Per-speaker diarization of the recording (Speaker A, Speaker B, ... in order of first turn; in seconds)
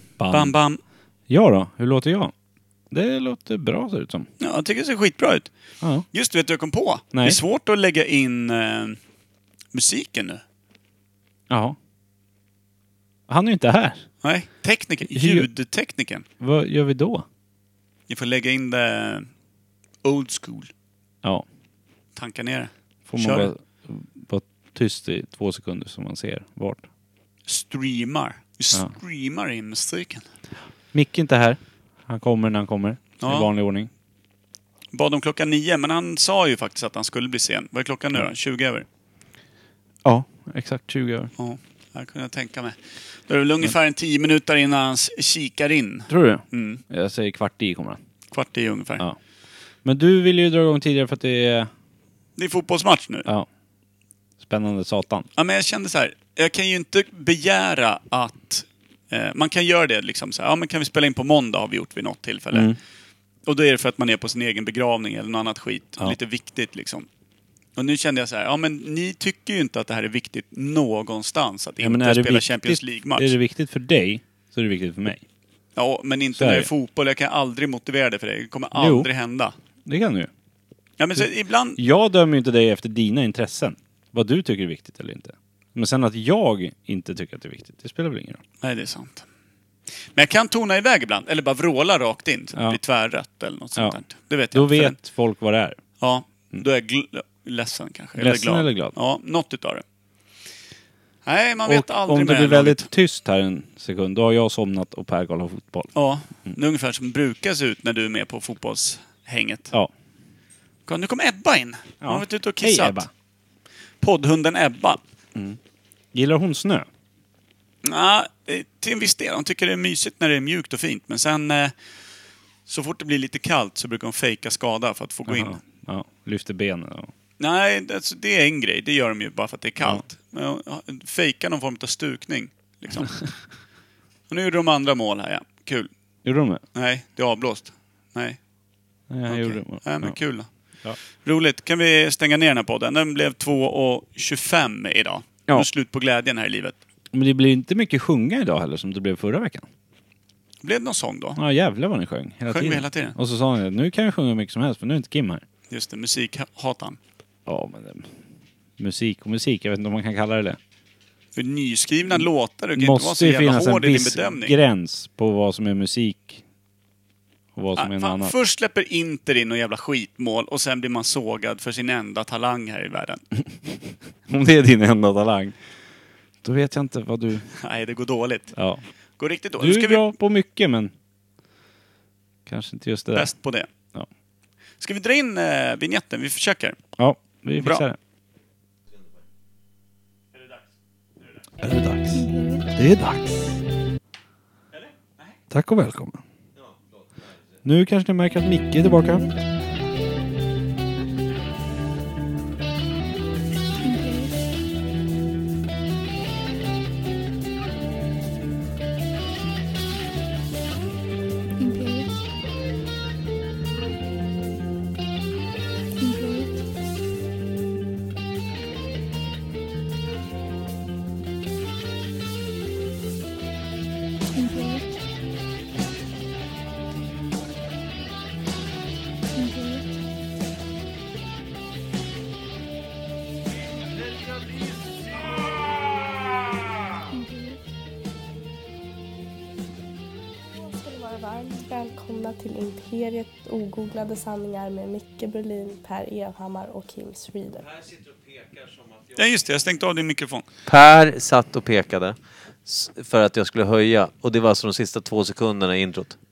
Speaker A: 0.2-0.6, 1.3-2.3, 2.9-4.3, 7.1-7.4, 11.5-11.8, 13.3-14.1, 15.2-15.5, 16.4-17.2, 23.1-26.8, 30.9-33.9, 40.0-41.3, 46.1-48.0, 49.8-51.7, 54.4-55.3, 71.8-75.2, 76.4-76.7, 78.8-79.1, 79.9-80.3, 81.8-88.4, 93.8-94.0, 94.5-95.8, 98.2-98.9, 101.7-105.9, 112.0-113.1, 116.1-116.9, 125.3-127.1, 136.2-136.6, 139.1-140.2, 147.1-149.7, 151.4-155.4, 157.5-158.1, 158.8-160.6, 162.1-166.4, 167.6-168.3, 174.3-175.6, 176.4-177.5, 178.6-178.8, 179.6-180.9, 182.5-183.3, 187.0-188.0, 191.6-193.6, 195.5-196.2, 197.6-199.3
Speaker B: 0.3-0.8, 4.4-5.5, 6.1-9.0, 9.7-10.4, 14.2-16.2, 18.1-19.3, 20.0-20.7, 22.2-23.5, 27.5-30.2, 33.2-33.5, 34.9-38.9, 41.4-46.8, 48.3-49.0, 52.4-53.3, 55.4-62.7, 63.5-67.1, 67.8-73.3, 75.8-79.5, 81.0-81.8, 88.6-89.3, 90.1-95.0, 96.0-99.8, 101.3-102.9, 106.0-109.7, 110.9-113.1, 114.0-115.0, 117.8-121.8, 122.7-125.6, 127.4-133.2, 134.3-135.9, 136.7-138.4, 139.3-140.5, 141.2-146.8, 150.6-151.4, 152.5-153.2, 155.7-157.0, 161.3-164.6, 167.8-173.2, 177.5-178.6, 179.2-180.1, 183.1-183.7, 184.8-186.8, 187.6-187.8, 194.7-195.3, 249.2-250.5
Speaker C: 192.1-192.7, 199.0-199.3, 203.8-204.4, 211.6-212.2, 216.0-216.6, 224.3-224.9, 229.3-230.0, 237.1-237.6
Speaker D: 240.5-247.7
Speaker E: 250.7-256.2